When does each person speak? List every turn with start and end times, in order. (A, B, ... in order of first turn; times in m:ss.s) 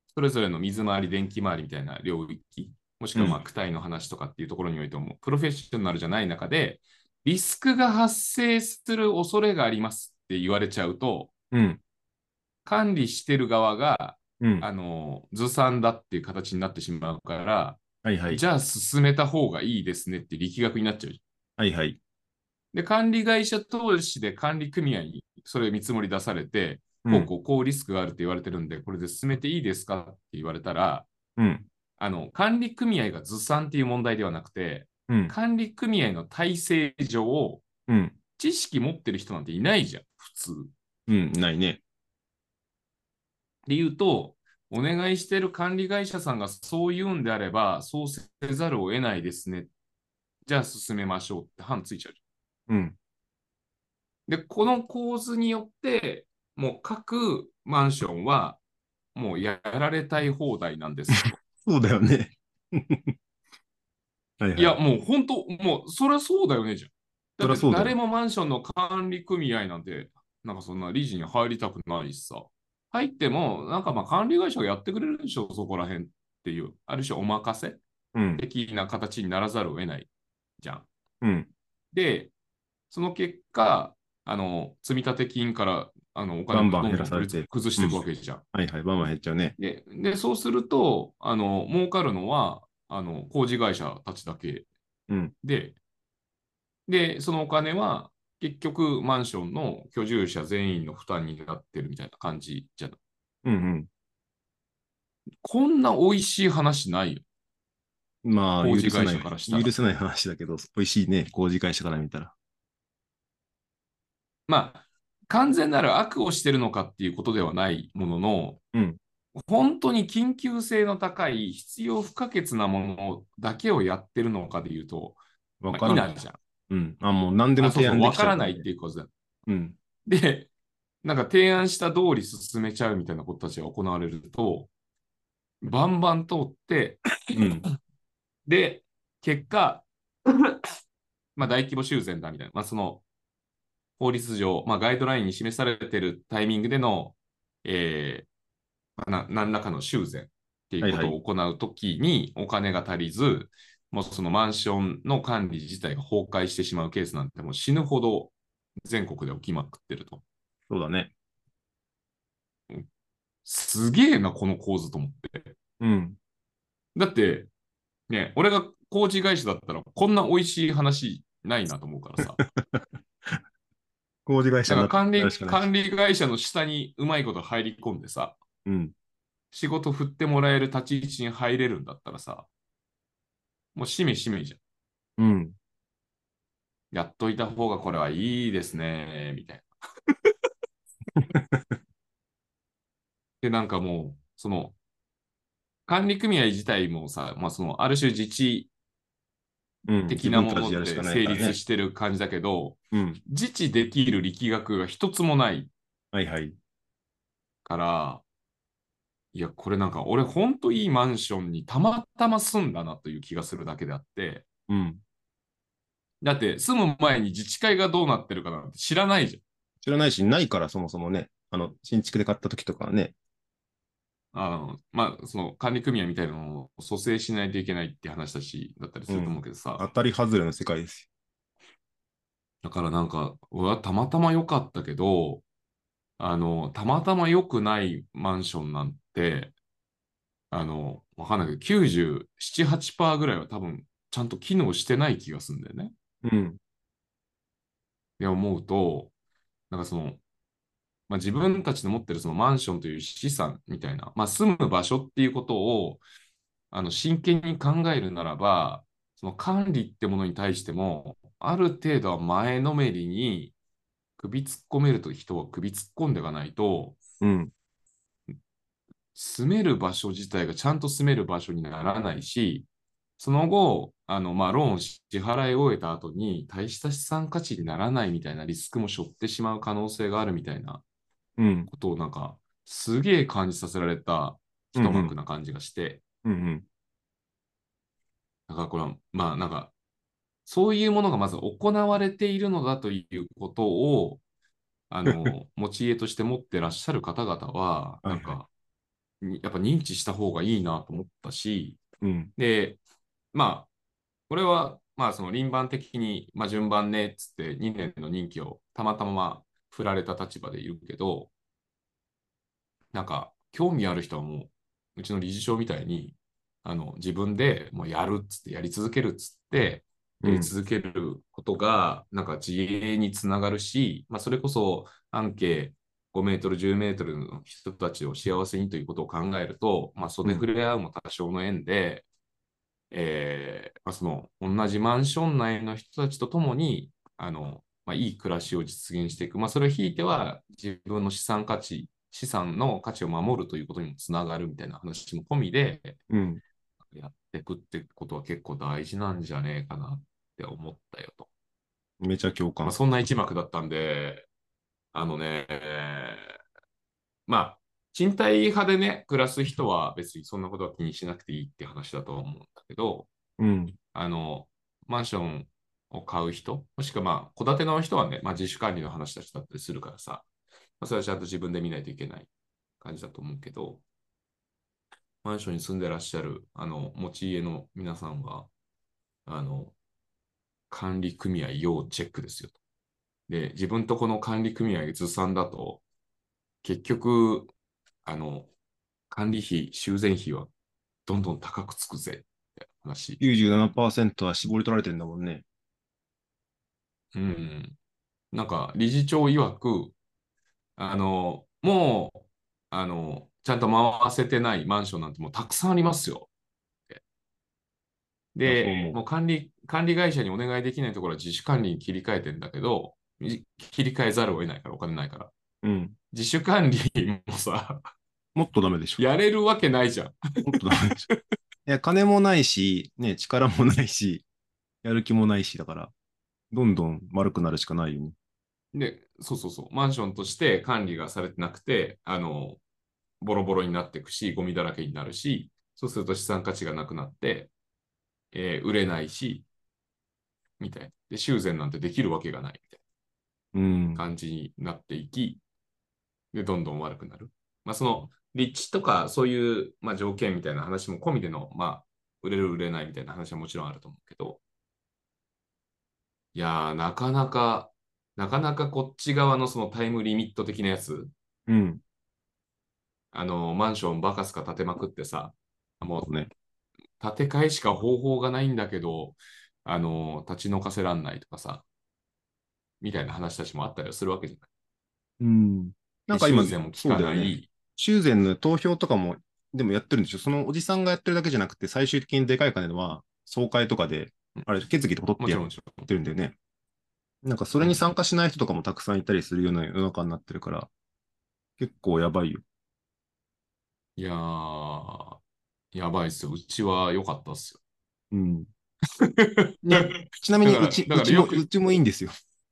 0:00.2-0:11.3 A
0:11.5-0:11.8 B
0:12.6-0:21.2 A
0:14.4-0:14.7 B
0:18.0-0:18.4 B
0:21.6-0:22.0 B
0:22.7-0:31.1 A
0:27.0-0:27.3 B
0:31.4-0:31.7 B
0:32.0-0:37.6 A
0:35.1-0:35.3 B
0:37.9-0:38.2 B
0:38.4-0:40.7 A
0:41.1-0:41.8 B
0:43.7-0:49.7 A
0:50.5-0:52.2 A
0:52.7-0:53.0 B
0:54.3-0:58.6 A
0:59.2-1:01.3 A
1:01.2-1:03.2 B
1:04.4-1:04.8 B
1:04.6-1:17.8 A
1:07.4-1:08.0 B
1:18.1-1:18.4 B
1:18.4-1:20.9 A
1:21.2-1:21.5 B
1:21.9-1:22.3 A
1:22.9-1:28.4 A
1:26.5-1:29.6 B
1:29.6-1:34.7 A
1:35.4-1:35.8 A
1:36.9-1:43.0 A
1:43.4-1:43.9 B
1:45.4-1:47.2 A
1:48.2-1:52.3 B
1:48.6-1:49.7 A
1:54.5-1:58.6 A
1:58.7-1:59.0 B
1:59.4-2:05.2 A
2:05.6-2:06.1 B
2:05.7-2:06.4 A
2:06.7-2:08.7 B
2:07.6-2:09.1 A
2:09.5-2:09.8 B
2:10.1-2:10.5 A
2:11.0-2:14.7 A
2:15.6-2:17.0 A
2:17.4-2:17.6 B
2:18.5-2:20.6 A
2:21.4-2:23.0 A
2:24.0-2:28.3 A
2:29.0-2:38.3 A
2:30.8-2:31.2 B
2:38.9-2:40.2 A
2:40.7-2:41.1 B
2:43.4-2:45.6 A
2:45.8-2:46.2 B
2:47.0-2:47.5 A
2:48.1-2:52.4 A
2:52.4-2:52.8 B
2:54.3-2:55.7 B
2:54.7-2:58.4 A
2:58.6-2:58.9 B
2:59.5-3:02.5 A
3:03.8-3:04.6 A
3:05.2-3:05.6 B
3:06.9-3:09.7 A
3:11.2-3:11.7 B
3:13.4-3:14.8 A
3:15.9-3:18.7 A
3:19.9-3:21.6 B
3:20.1-3:25.7 A
3:22.9-3:23.2 B
3:26.1-3:26.6 B
3:27.6-3:28.2 A
3:29.3-3:34.5 A
3:34.7-3:35.0 B
3:36.2-3:39.4 A
3:39.8-3:43.1 B
3:44.3-3:49.8 A
3:49.1-3:51.1 B
3:52.6-3:55.4 A
3:56.2-3:59.5 A
4:00.5-4:05.9 A
4:06.2-4:06.6 B
4:08.2-4:09.1 A
4:09.7-4:10.2 A
4:11.1-4:16.0 A
4:16.7-4:23.5 A
4:24.2-4:27.0 A
4:27.2-4:27.5 B
4:29.2-4:32.7 A
4:33.2-4:40.8 A
4:41.4-4:41.7 B
4:41.7-4:46.0 A
4:44.8-4:45.1 B
4:46.2-4:46.6 B
4:48.5-4:49.7 A
4:50.5-4:54.2 A
4:54.9-4:58.5 A
4:58.0-4:58.4 B
4:59.2-5:01.8 A
5:02.0-5:02.3 B
5:02.4-5:02.8 A
5:03.3-5:03.7 A
5:04.3-5:11.3 A
5:12.9-5:32.0 A
5:20.2-5:20.5 B
5:32.9-5:46.0 A
5:46.1-5:46.4 B
5:46.9-5:51.3 A
5:52.0-5:52.8 B
5:52.6-5:54.3 A
5:54.9-5:56.3 A
5:57.3-6:03.1 A
6:03.4-6:03.8 B
6:03.9-6:10.3 A
6:10.8-6:12.3 A
6:12.8-6:13.8 A
6:15.2-6:18.5 A
6:19.3-6:19.8 A
6:20.7-6:22.6 A
6:23.3-6:25.8 A
6:26.6-6:27.5 A
6:28.0-6:28.5 A
6:29.1-6:30.5 A
6:31.1-6:33.2 A
6:33.2-6:35.4 B
6:37.1-6:37.8 A
6:38.3-6:39.9 A
6:40.8-6:46.3 A
6:48.4-6:55.3 A
6:48.4-6:49.0 B
6:55.6-6:56.0 B
6:56.1-6:57.8 A
6:58.4-6:59.0 B
6:59.0-7:01.2 A
7:00.4-7:01.0 B
7:01.7-7:04.2 B
7:04.8-7:05.9 B
7:06.5-7:08.2 B
7:08.7-7:12.6 A
7:13.2-7:17.5 A
7:18.3-7:19.5 A
7:20.6-7:22.8 A
7:23.5-7:24.0 B
7:24.0-7:25.4 A
7:26.3-7:34.4 A
7:36.4-7:41.1 A
7:41.5-7:41.8 B
7:43.1-7:46.1 A
7:46.0-7:46.3 B
7:47.0-7:51.6 A
7:52.8-7:54.5 A
7:55.2-8:06.4 B
7:56.1-7:57.5 A
8:05.2-8:05.9 A
8:07.2-8:10.7 B
8:11.6-8:12.4 B
8:14.0-8:15.2 A
8:15.7-8:17.6 A
8:18.1-8:18.5 B
8:19.0-8:21.5 A
8:19.6-8:22.1 B